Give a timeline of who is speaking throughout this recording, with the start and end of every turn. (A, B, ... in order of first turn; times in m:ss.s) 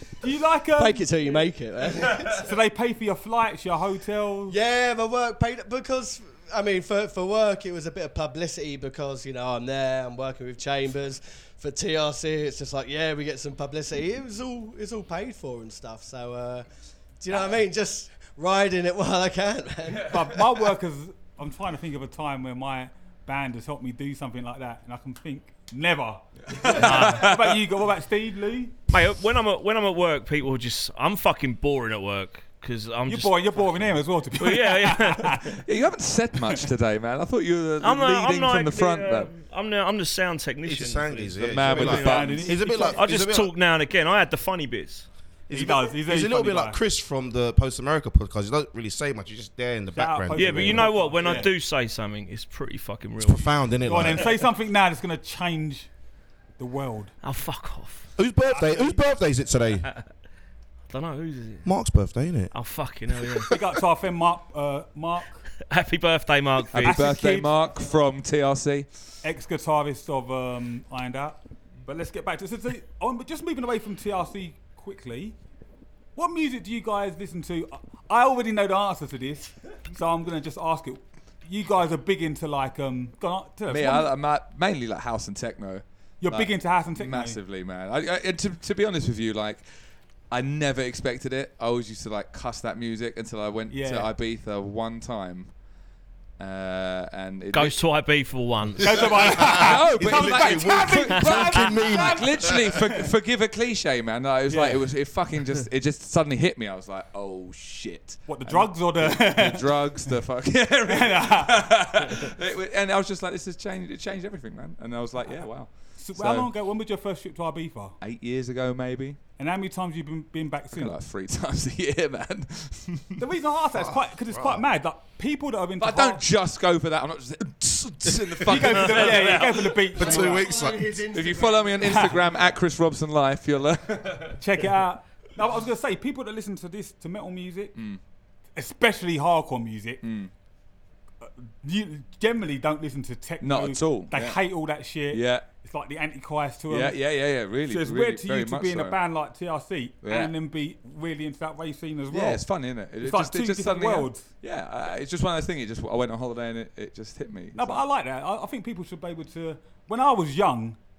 0:00.2-0:01.5 A
0:00.8-0:02.5 B
0:02.3-0:04.6 A
0:04.5-0:16.7 B
0:17.2-0:20.4 B
0:19.9-0:20.3 C
0:20.0-0:28.8 A
0:26.5-0:27.6 C
0:26.7-0:27.3 D
0:28.9-0:33.8 D
0:33.1-0:35.6 A
0:34.4-0:35.6 D
0:35.5-0:39.3 C
0:37.8-0:45.1 D
0:40.6-0:43.5 E
0:41.4-0:42.5 C
0:41.7-0:43.0 A
0:45.5-0:50.9 E
0:45.5-0:46.8 A
0:49.9-0:51.5 A
0:50.4-0:53.6 D
0:53.2-0:54.4 E
0:53.8-0:55.9 A
0:56.6-0:57.2 A
0:57.2-0:58.1 D
0:58.2-0:59.9 E
0:58.6-0:59.0 A
1:00.9-1:01.7 D
1:01.6-1:02.5 E
1:02.5-1:03.6 D
1:03.5-1:05.5 A
1:05.6-1:07.0 D
1:06.7-1:08.9 C
1:06.8-1:07.8 A
1:09.2-1:15.4 A
1:16.2-1:24.1 A
1:23.7-1:29.7 C
1:26.2-1:27.4 A
1:30.3-1:35.5 C
1:33.7-1:34.1 A
1:36.4-1:37.8 C
1:37.5-1:39.5 D
1:38.8-1:43.1 A
1:39.0-1:42.8 E
1:39.4-1:56.5 C
1:44.5-1:44.9 A
1:48.3-1:50.2 A
1:50.9-1:52.3 A
1:55.2-1:58.0 A
1:58.0-1:59.2 C
1:59.4-2:01.0 A
2:00.7-2:03.3 C
2:03.2-2:06.2 A
2:04.3-2:04.6 E
2:05.8-2:10.2 C
2:08.4-2:10.5 A
2:10.0-2:11.0 E
2:10.0-2:12.6 B
2:11.1-2:14.4 C
2:11.8-2:12.1 A
2:14.4-2:17.8 A
2:18.6-2:20.0 A
2:20.0-2:20.3 C
2:21.2-2:27.0 A
2:23.4-2:24.4 C
2:25.1-2:25.5 C
2:26.7-2:29.0 C
2:27.6-2:32.5 A
2:30.0-2:30.3 C
2:32.1-2:37.8 C
2:33.0-2:34.3 A
2:37.5-2:40.8 A